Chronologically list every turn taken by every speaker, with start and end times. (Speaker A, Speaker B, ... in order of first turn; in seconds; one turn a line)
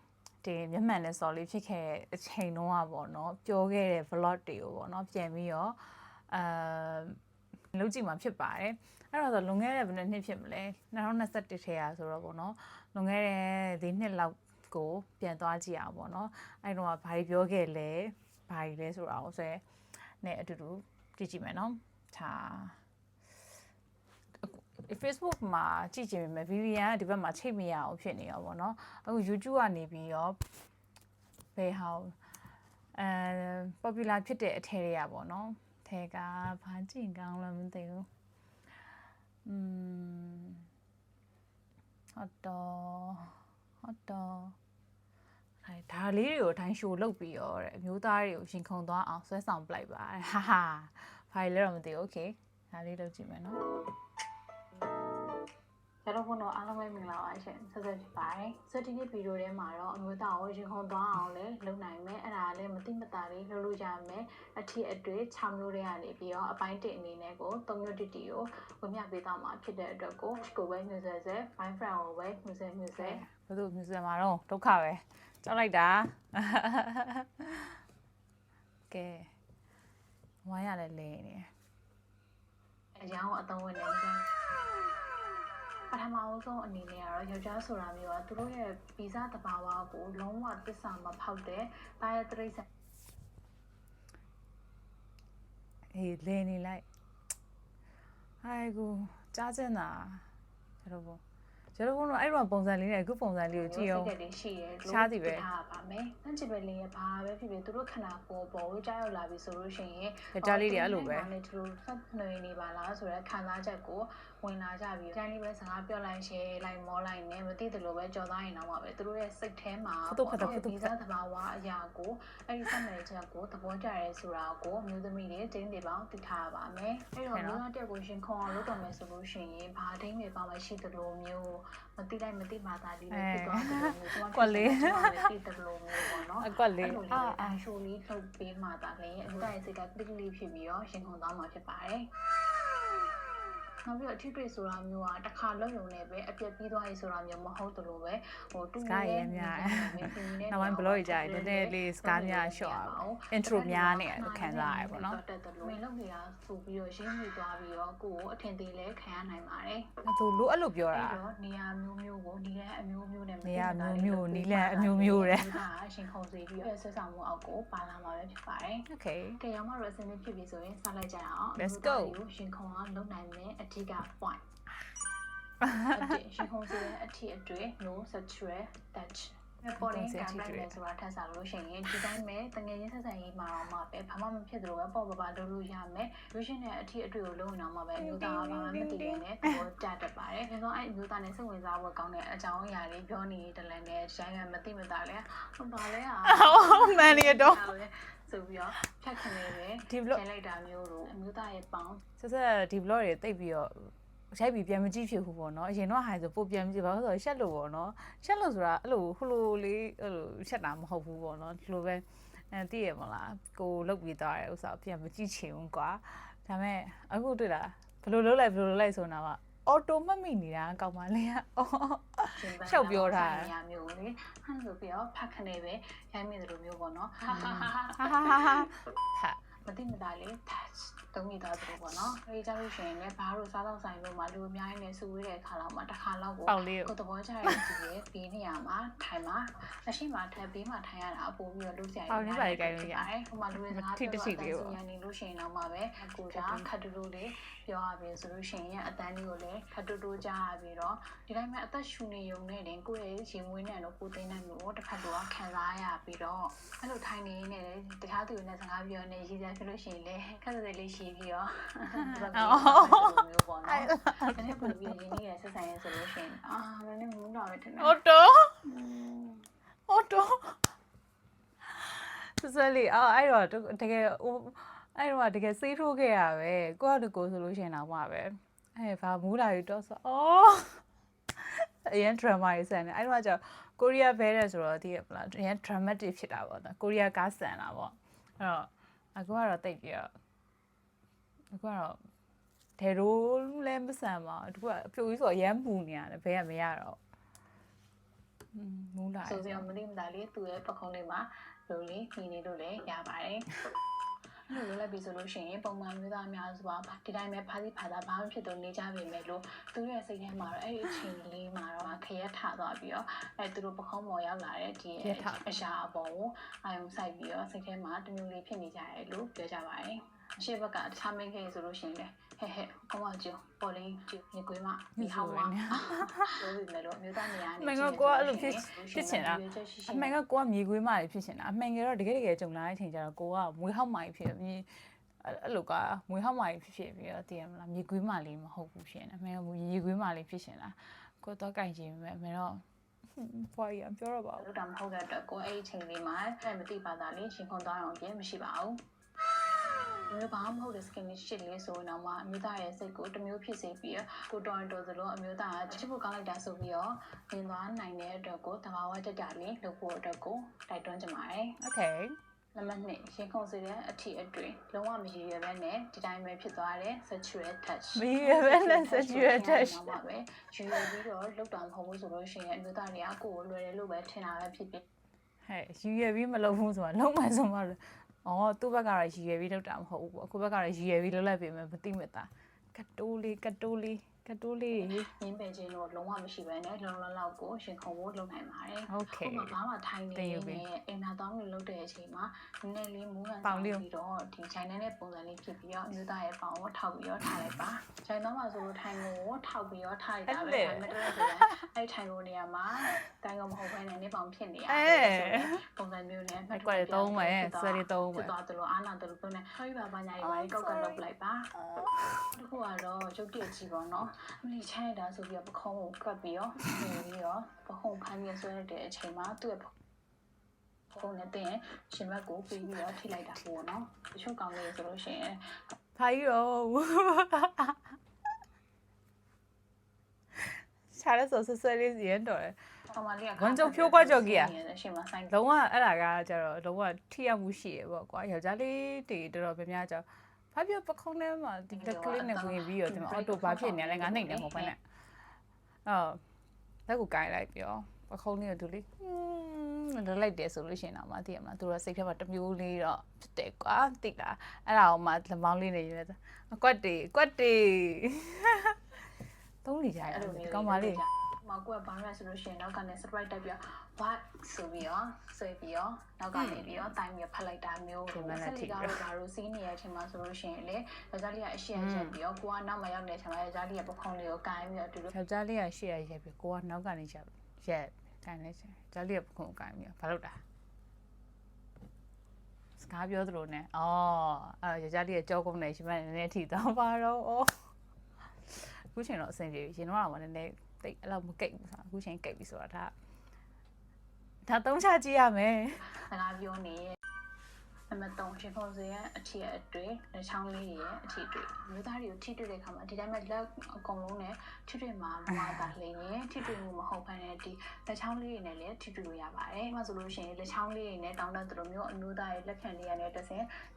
Speaker A: 0.4-7.2
Speaker A: 7.7-19.6
Speaker A: 20.2-22.8
Speaker A: 24.4-30.4
Speaker A: 31.5-32.1
Speaker A: 32.9-38.1
Speaker A: 39.4-40.7
Speaker A: 42.1-44.5
Speaker A: 45.6-53.6
Speaker B: 56.0-73.2
Speaker A: 73.0-77.8
Speaker A: 78.9-79.3
Speaker A: 80.4-81.5
Speaker B: 83.0-84.3
Speaker B: 85.9-92.7
Speaker A: 95.9-96.8
Speaker A: 98.4-100.2
Speaker A: 100.8-101.2
Speaker A: 101.7-104.1
Speaker B: 103.6-142.1
Speaker A: 104.8-105.5
Speaker A: 110.3-111.3
Speaker A: 120.1-120.9
Speaker A: 127.3-127.6
Speaker A: 133.1-135.3
Speaker A: 136.4-137.6
Speaker B: 143.8-159.9
Speaker A: 148.8-155.2
Speaker A: 160.0-161.2
Speaker B: 160.9-174.4
Speaker A: 163.4-165.6
Speaker A: 168.9-169.4
Speaker A: 171.6-172.2
Speaker A: 175.6-175.9
Speaker B: 175.9-202.0
Speaker A: 179.8-180.8
Speaker A: 188.0-189.6
Speaker A: 196.2-197.6
Speaker A: 199.9-200.2
Speaker A: 202.2-223.5
Speaker B: 222.3-228.5
Speaker A: 227.3-229.4
Speaker B: 229.7-267.9
Speaker A: 236.5-236.9
Speaker A: 242.1-243.1
Speaker A: 243.7-244.8
Speaker A: 246.3-246.7
Speaker A: 262.1-264.9
Speaker A: 267.8-268.6
Speaker B: 268.6-269.4
Speaker A: 269.9-270.6
Speaker A: 271.7-280.8
Speaker A: 281.4-290.1
Speaker A: 291.5-292.0
Speaker A: 292.8-297.0
Speaker A: 298.5-299.7
Speaker B: 299.2-303.5
Speaker B: 304.5-330.2
Speaker A: 315.0-315.6
Speaker A: 325.0-326.4
Speaker A: 327.6-342.6
Speaker A: 343.1-344.4
Speaker B: 344.4-348.8
Speaker B: 350.1-361.6
Speaker A: 361.6-362.1
Speaker B: 362.5-374.8
Speaker A: 367.9-369.9
Speaker A: 375.4-385.1
Speaker B: 384.8-411.5
Speaker A: 388.9-389.5
Speaker A: 390.1-390.6
Speaker A: 393.4-393.8
Speaker A: 400.3-401.5
Speaker A: 404.7-405.6
Speaker A: 406.5-408.3
Speaker A: 410.2-411.0
Speaker A: 411.6-412.2
Speaker B: 412.3-419.7
Speaker B: 420.9-425.7
Speaker A: 425.9-427.8
Speaker A: 430.4-432.6
Speaker B: 432.9-435.4
Speaker A: 433.4-434.5
Speaker A: 435.3-444.8
Speaker B: 441.7-444.7
Speaker A: 445.9-446.2
Speaker A: 446.9-458.8
Speaker A: 459.6-461.0
Speaker B: 460.0-475.1
Speaker A: 466.3-466.8
Speaker A: 468.1-469.0
Speaker A: 471.7-472.2
Speaker A: 475.1-480.4
Speaker A: 482.8-487.6
Speaker A: 488.5-492.9
Speaker A: 494.4-495.9
Speaker B: 495.9-497.0
Speaker B: 497.9-513.5
Speaker A: 505.3-505.7